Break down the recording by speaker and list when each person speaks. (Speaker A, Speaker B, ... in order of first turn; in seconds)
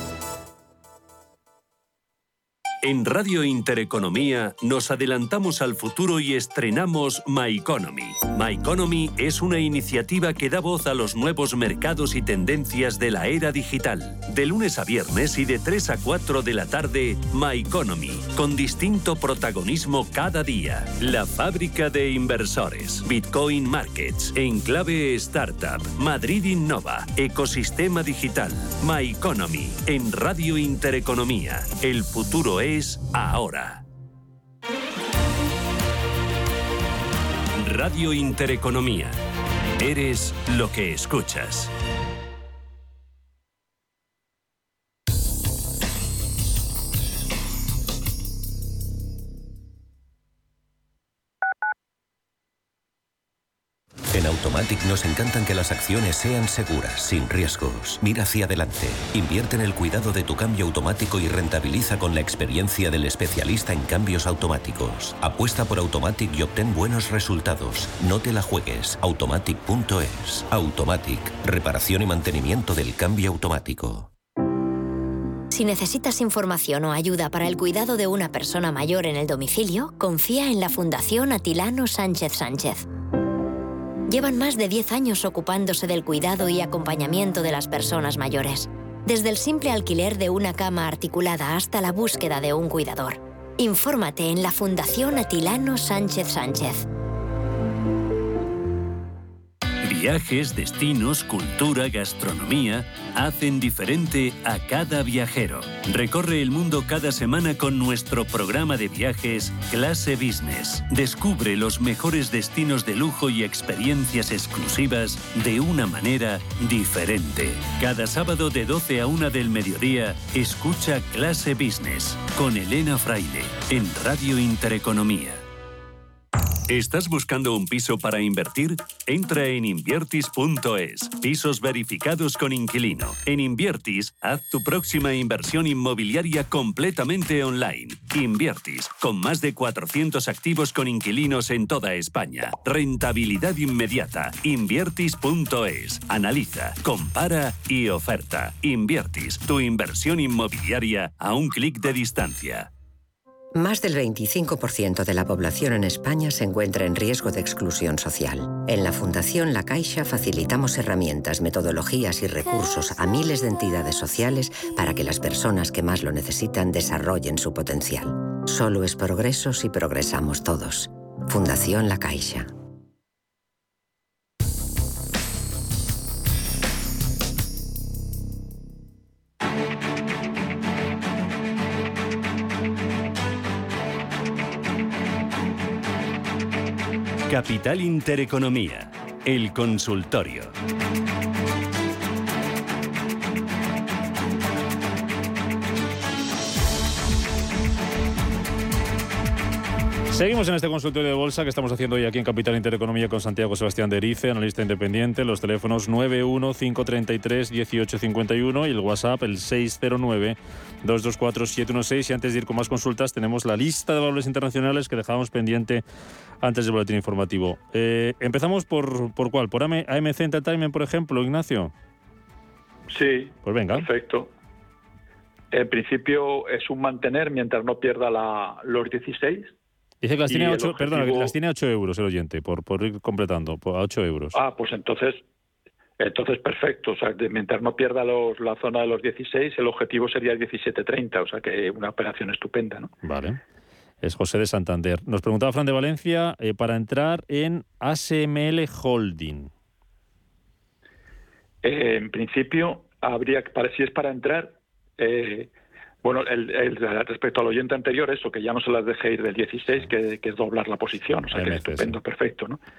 Speaker A: 2.8-33.8, 37.6-39.2, 39.8-41.7, 99.8-125.4, 126.7-152.7, 187.3-190.5
Speaker B: 54.1-74.1
Speaker C: 75.5-82.8, 84.1-96.9
Speaker D: 153.6-172.5
Speaker E: 200.1-215.8, 216.4-221.7, 223.4-223.9, 230.0-234.4, 243.0-243.4, 244.0-249.5, 261.3-262.0
Speaker F: 222.9-224.3, 225.5-229.5, 230.3-231.3, 234.3-235.2, 236.0-242.9, 251.6-255.5, 256.0-262.6